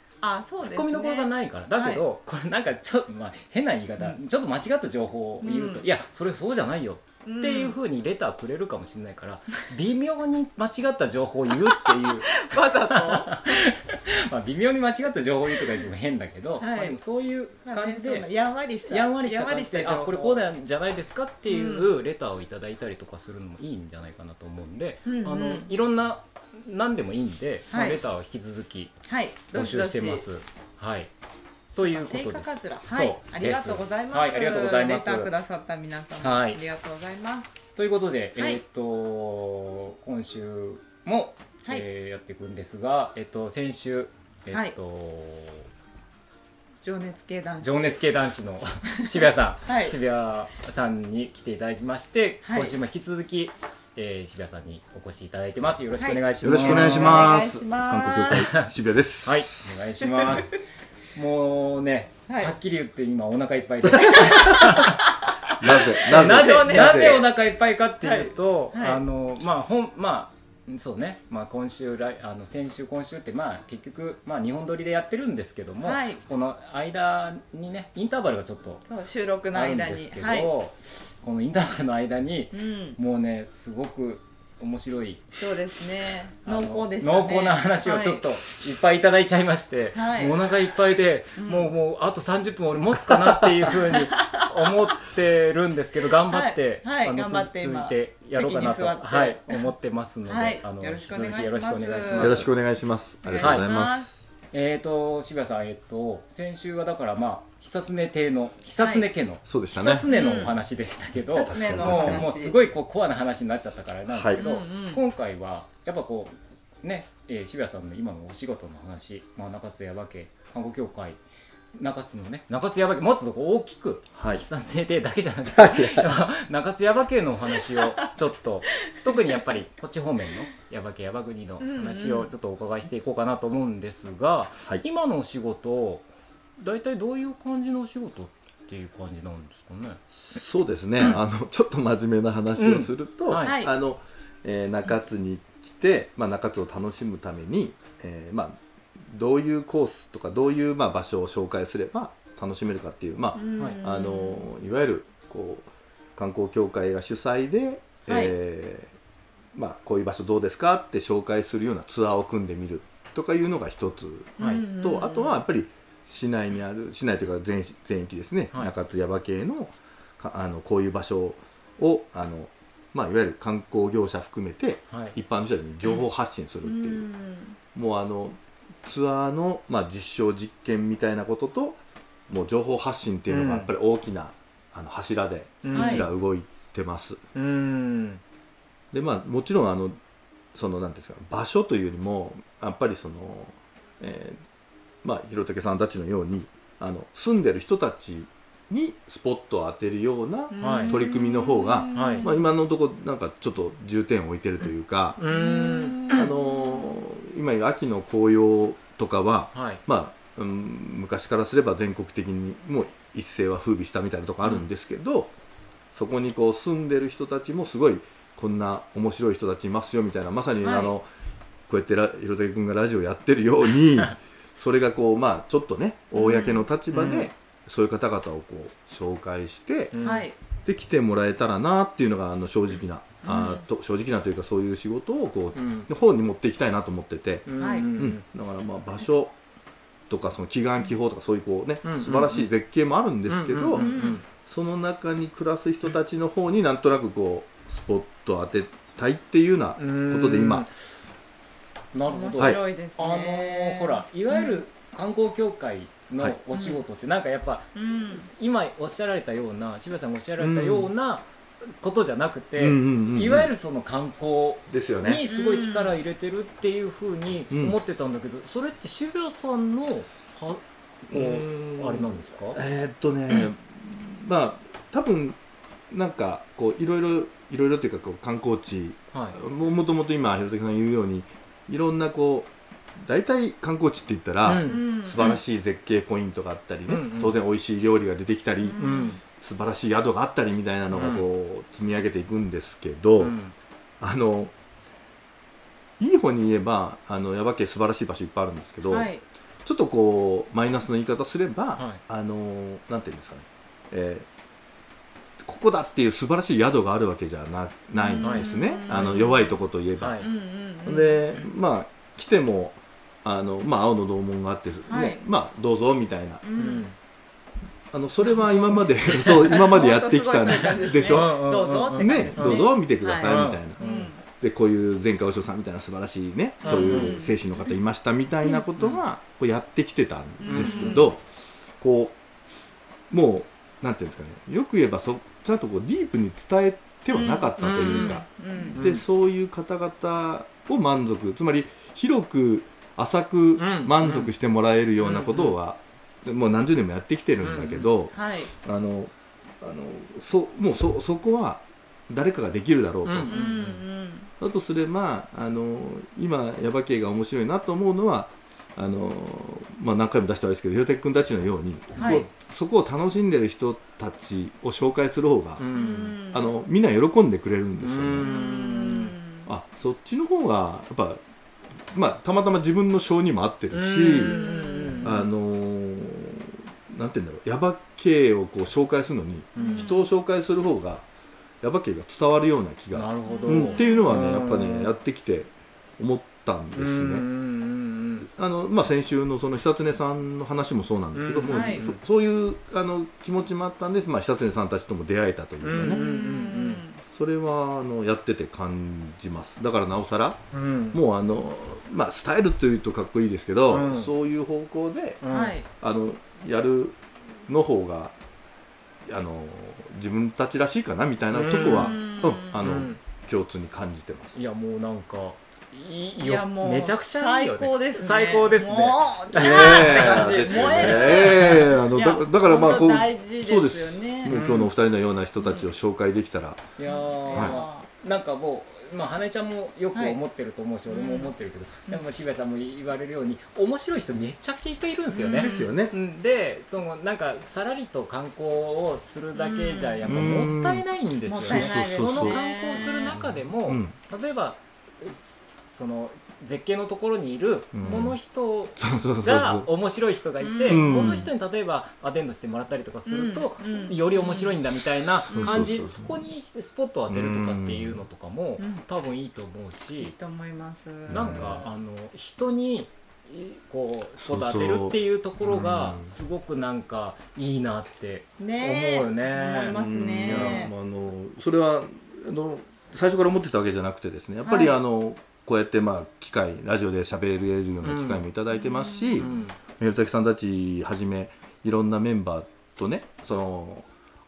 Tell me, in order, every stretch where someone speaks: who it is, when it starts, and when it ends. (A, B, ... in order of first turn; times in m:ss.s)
0:00.2-0:02.0 A
0:00.6-0:18.3 B
0:05.4-0:05.8 A
0:07.2-0:07.8 A
0:11.6-0:13.7 A
0:16.6-0:17.0 A
0:17.6-0:20.4 A
0:18.9-0:28.9 B
0:21.5-0:21.9 A
0:25.0-0:25.7 A
0:27.7-0:28.0 A
0:29.1-0:30.2 A
0:29.5-0:31.1 B
0:31.7-0:35.3 B
0:31.9-0:37.6 A
0:36.2-0:36.6 B
0:37.8-0:45.7 B
0:46.8-0:48.0 A
0:47.6-0:57.3 B
0:49.0-0:50.0 A
0:52.4-0:52.7 A
0:56.0-0:58.5 A
0:56.4-0:59.8 C
0:59.2-1:00.6 B
1:00.0-1:00.6 A
1:01.1-1:05.0 B
1:02.3-1:02.5 A
1:03.9-1:04.7 C
1:04.0-1:04.9 A
1:05.6-1:07.2 C
1:05.7-1:18.8 B
1:05.9-1:07.3 A
1:08.0-1:09.0 A
1:15.8-1:16.2 A
1:18.8-1:20.5 A
1:19.5-1:25.4 B
1:22.5-1:23.0 A
1:25.4-1:28.2 A
1:26.4-1:42.5 B
1:29.9-1:30.4 A
1:31.4-1:31.7 A
1:33.7-1:34.5 A
1:36.3-1:39.7 A
1:40.2-1:42.4 A
1:42.1-1:44.2 C
1:43.2-1:44.1 A
1:43.4-1:43.6 B
1:44.5-2:01.2 B
1:48.8-1:49.0 A
1:49.4-1:50.1 C
1:50.0-1:50.5 A
1:51.2-1:52.6 A
1:51.4-1:52.3 C
1:54.1-1:54.4 C
1:54.3-1:55.0 A
2:01.8-2:16.0 B
2:04.1-2:04.4 C
2:05.5-2:06.1 C
2:08.9-2:09.4 A
2:11.6-2:12.3 A
2:16.6-2:20.0 B
2:20.3-2:38.9 C
2:22.6-2:23.5 B
2:23.4-2:23.7 A
2:33.3-2:34.5 A
2:38.0-2:38.3 A
2:39.5-2:57.1 C
2:44.4-2:44.6 B
2:44.4-2:45.4 A
2:56.6-2:57.6 A
2:57.7-3:07.2 C
3:03.3-3:03.7 B
3:05.6-3:06.1 B
3:05.7-3:06.1 A
3:07.3-3:08.2 B
3:08.9-3:10.0 C
3:10.5-3:14.4 C
3:15.0-3:25.2 C
3:20.5-3:22.4 A
3:20.6-3:21.0 B
3:21.9-3:22.3 B
3:25.2-3:26.2 B
3:25.3-3:26.9 A
3:26.1-3:35.3 C
3:29.5-3:29.8 B
3:35.9-3:41.1 C
3:40.6-3:40.9 A
3:41.7-3:50.0 C
3:46.1-3:46.6 A
3:46.9-3:47.3 B
3:49.9-3:50.3 B
3:50.0-3:50.3 A
3:50.6-3:59.4 C
3:53.2-3:53.6 A
3:55.5-3:55.9 B
3:57.4-3:58.2 B
3:57.6-3:57.9 A
4:00.1-4:10.6 C
4:01.8-4:02.5 B
4:03.3-4:04.2 B
4:03.8-4:04.2 A
4:09.8-4:10.7 B
4:11.9-4:32.6 B
4:12.1-4:14.6 A
4:16.5-4:16.8 A
4:17.7-4:18.3 A
4:20.4-4:20.9 C
4:22.6-4:23.5 C
4:24.7-4:25.2 C
4:25.3-4:25.9 A
4:27.5-4:27.8 C
4:31.1-4:35.4 C
4:35.9-4:53.4 C
4:44.4-4:45.4 B
4:44.6-4:45.4 A
4:46.9-4:47.3 B
4:48.7-4:49.1 A
4:48.8-4:49.2 B
4:50.9-4:51.2 B
4:53.2-4:53.5 B
4:54.0-4:54.5 C
4:56.0-4:59.1 C
4:58.9-4:59.2 A
4:59.6-5:04.3 C
5:05.4-5:10.2 C
5:08.0-5:09.6 A
5:08.2-5:09.4 B
5:10.0-5:10.3 B
5:10.2-5:11.3 A
5:10.8-5:16.4 C
5:14.9-5:15.2 A
5:16.4-5:16.9 A
5:16.6-5:16.9 B
5:17.9-5:31.2 C
5:18.2-5:24.2 A
5:19.1-5:19.3 B
5:20.5-5:24.1 B
5:26.6-5:27.2 B
5:26.6-5:27.7 A
5:30.4-5:31.1 A
5:30.5-5:31.0 B
5:31.8-5:32.2 C
5:33.1-5:53.3 C
5:37.1-5:38.8 A
5:37.6-5:39.0 B
5:43.6-5:44.3 B
5:45.0-5:45.5 B
5:47.4-5:47.9 B
5:48.1-5:48.5 A
5:53.0-5:53.8 B
5:53.3-5:54.3 A
5:54.4-6:05.7 C
6:01.9-6:02.3 B
6:02.0-6:02.2 A
6:05.6-6:06.2 B
6:05.7-6:06.6 A
6:06.2-6:08.3 C
6:07.8-6:09.2 B
6:08.2-6:09.5 A
6:09.4-6:11.2 C
6:11.9-6:14.4 C
6:13.7-6:15.2 B
6:14.0-6:15.3 A
6:15.0-6:21.0 C
6:19.6-6:19.9 B
6:19.6-6:20.1 A
6:21.6-6:27.3 C
6:22.9-6:24.9 B
6:23.3-6:24.4 A
6:26.7-6:28.3 B
6:28.3-6:36.0 C
6:31.1-6:32.0 B
6:31.4-6:31.8 A
6:35.6-6:36.8 B
6:35.8-6:37.0 A
6:37.1-6:45.2 C
6:40.5-6:41.0 B
6:43.7-6:44.1 B
6:45.2-6:45.6 B
6:45.3-6:45.6 A
6:45.8-6:48.2 C
6:49.0-6:54.4 C
6:51.3-6:53.0 B
6:51.6-6:52.6 A
6:54.3-7:01.7 B
6:56.2-7:04.4 A
6:59.3-7:06.6 C
7:04.3-7:04.7 B
7:05.4-7:05.7 A
7:06.8-7:40.2 B
7:06.8-7:07.9 A
7:07.3-7:07.6 C
7:09.9-7:10.2 A
7:10.9-7:11.3 A
7:15.1-7:15.7 A
7:15.4-7:15.9 C
7:19.4-7:20.4 A
7:20.0-7:20.8 C
7:21.3-7:23.1 A
7:21.4-7:22.4 C
7:23.1-7:24.0 C
7:27.7-7:28.2 C
7:28.8-7:29.7 C
7:30.4-7:31.1 A
7:30.6-7:31.3 C
7:33.0-7:34.6 A
7:35.3-7:35.7 A
7:35.3-7:36.2 C
7:37.1-7:38.0 C
7:38.6-7:38.8 A
7:40.0-7:41.6 A
7:41.1-7:41.6 C
7:41.1-7:50.6 B
7:44.2-7:46.1 C
7:48.4-7:50.7 A
7:49.7-8:03.9 C
7:54.4-7:54.8 A
7:57.8-7:58.2 B
7:58.6-7:59.4 A
7:59.2-7:59.5 B